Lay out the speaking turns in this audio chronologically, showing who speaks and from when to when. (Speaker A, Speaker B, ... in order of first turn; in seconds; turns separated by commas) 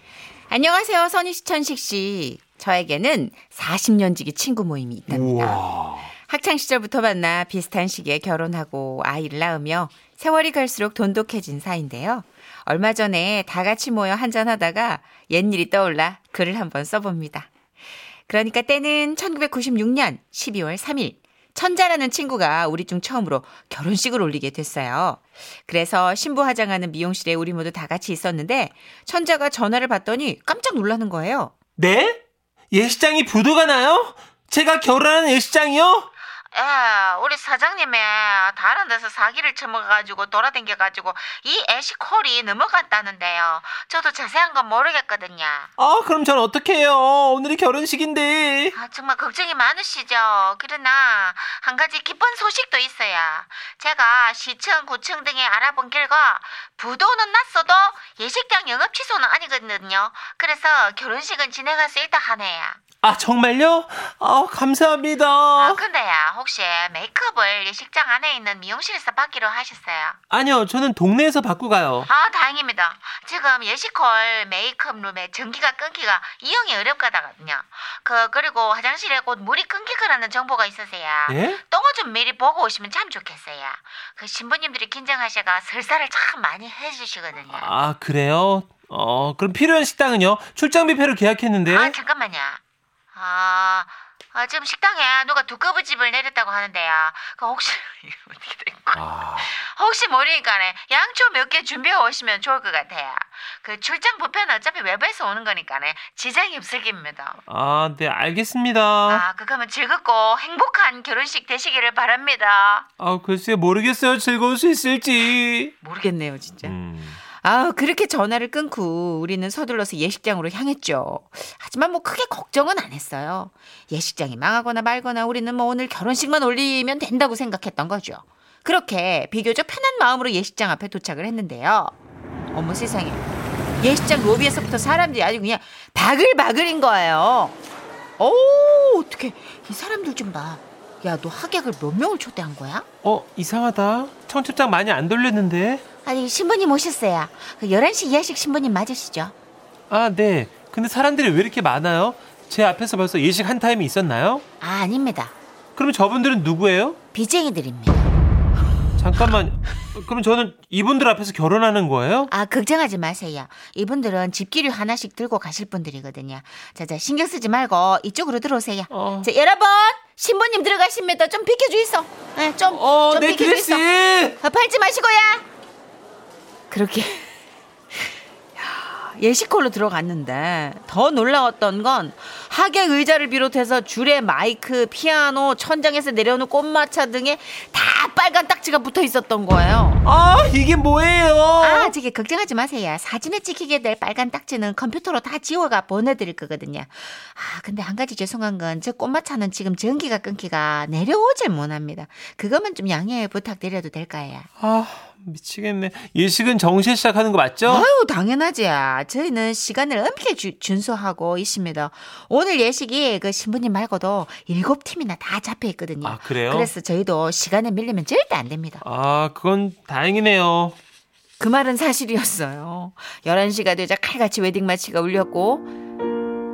Speaker A: 0.5-5.6, Speaker B: 5.1-6.1, Speaker A: 6.2-17.5, Speaker A: 18.3-31.5, Speaker B: 31.8-32.2, Speaker B: 32.7-36.1, Speaker A: 36.5-45.7, Speaker B: 45.8-48.8, Speaker A: 48.7-62.8, Speaker B: 63.0-65.8, Speaker A: 65.5-70.2, Speaker B: 70.3-72.1, Speaker A: 72.0-87.7, Speaker B: 81.3-81.6, Speaker B: 87.5-92.0, Speaker A: 91.7-92.6, Speaker A: 93.1-107.4, Speaker B: 98.9-99.5, Speaker B: 107.5-109.2, Speaker A: 109.1-112.9, Speaker B: 113.0-115.7, Speaker A: 115.8-116.8, Speaker B: 116.6-117.2, Speaker A: 117.3-131.9, Speaker A: 132.5-133.2, Speaker A: 133.8-137.6, Speaker A: 138.2-142.9, Speaker B: 143.0-145.8, Speaker A: 146.0-149.3, Speaker B: 149.9-154.4, Speaker A: 154.6-155.3, Speaker B: 155.8-157.0, Speaker A: 157.1-158.1, Speaker B: 159.0-162.3, Speaker A: 162.3-173.9, Speaker B: 168.9-169.3, Speaker B: 172.7-174.4, Speaker A: 174.4-175.4, Speaker A: 176.7-177.3, Speaker A: 178.6-190.1, Speaker B: 190.0-191.9, Speaker A: 191.6-204.5, Speaker B: 204.6-207.9, Speaker A: 207.7-218.8, Speaker B: 216.0-216.7, Speaker B: 218.8-220.8, Speaker A: 221.4-225.7